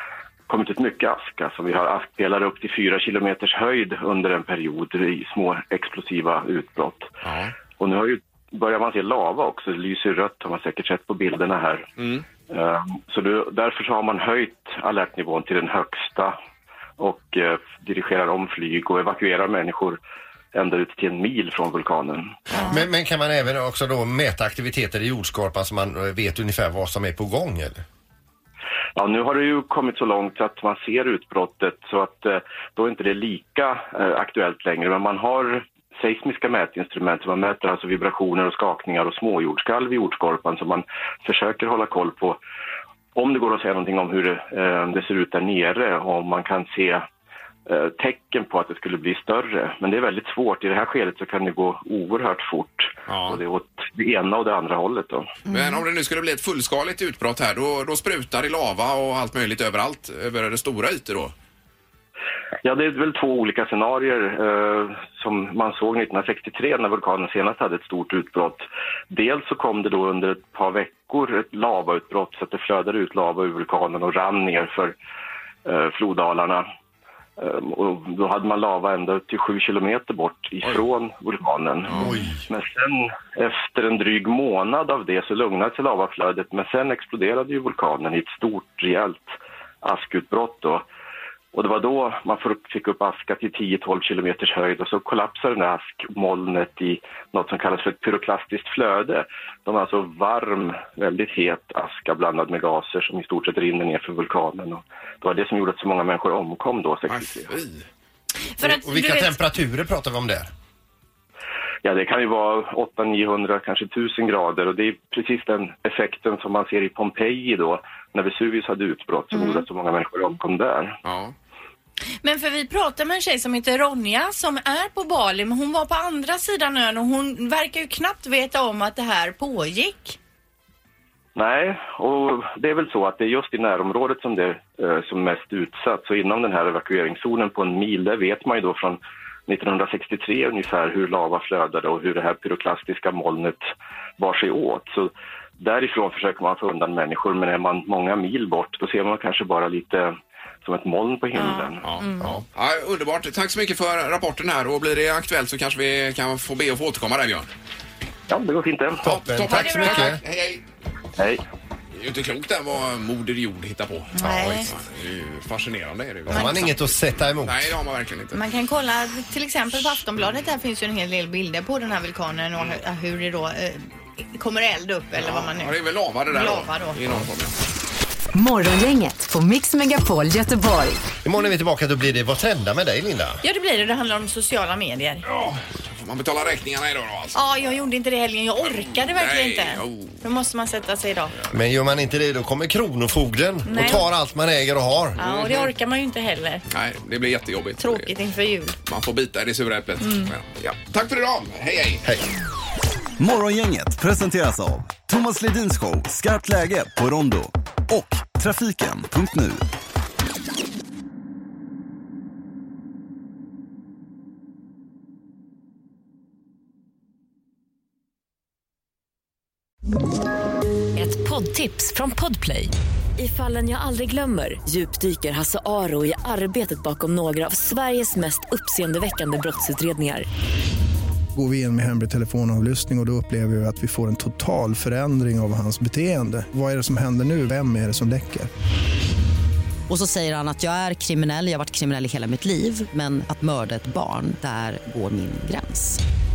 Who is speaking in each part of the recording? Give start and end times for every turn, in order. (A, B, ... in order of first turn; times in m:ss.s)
0:00.5-0:07.1 A
0:07.2-0:07.5 B
0:07.8-0:11.9 A
0:12.0-0:12.2 B
0:12.5-0:16.4 A
0:17.0-0:20.0 A
0:20.5-0:22.7 A
0:22.5-0:22.9 C
0:22.7-0:27.8 D
0:29.0-0:42.4 A
0:43.1-0:47.0 A
0:47.6-0:55.4 A
0:53.1-0:53.4 B
0:55.4-0:55.8 C
0:55.5-1:01.3 B
1:02.6-1:14.9 A
1:15.6-1:16.7 A
1:17.4-1:30.8 A
1:21.9-1:22.2 B
1:21.9-1:22.3 D
1:31.5-1:47.5 A
1:47.1-1:47.8 B
1:48.6-1:49.4 C
1:48.6-1:50.5 D
1:51.8-2:01.0 A
1:59.3-1:59.7 C
2:01.0-2:01.3 B
2:02.2-2:10.2 C
2:11.4-2:31.8 A
2:31.3-2:32.4 C
2:31.8-2:37.5 B
2:38.3-2:39.0 A
2:39.0-2:40.2 D
2:39.0-2:40.6 B
2:39.5-2:40.2 C
2:41.2-2:41.4 A
2:42.0-2:48.4 B
2:44.1-2:44.7 C
2:44.2-2:44.6 D
2:46.3-2:47.8 D
2:46.3-2:46.6 C
2:48.3-2:55.8 C
2:55.2-2:57.5 B
2:56.3-2:57.0 C
2:58.3-3:01.0 E
3:01.2-3:03.4 D
3:03.4-3:05.2 C
3:05.2-3:07.4 B
3:07.3-3:11.3 C
3:08.6-3:10.2 B
3:11.5-3:15.2 D
3:13.6-3:14.0 C
3:15.2-3:15.7 B
3:15.2-3:16.6 C
3:16.7-3:18.1 B
3:17.8-3:18.8 C
3:18.8-3:22.0 B
3:20.0-3:20.3 C
3:23.2-3:29.6 F
3:41.0-3:50.2 G
3:51.3-3:58.5 H
3:59.9-4:06.0 I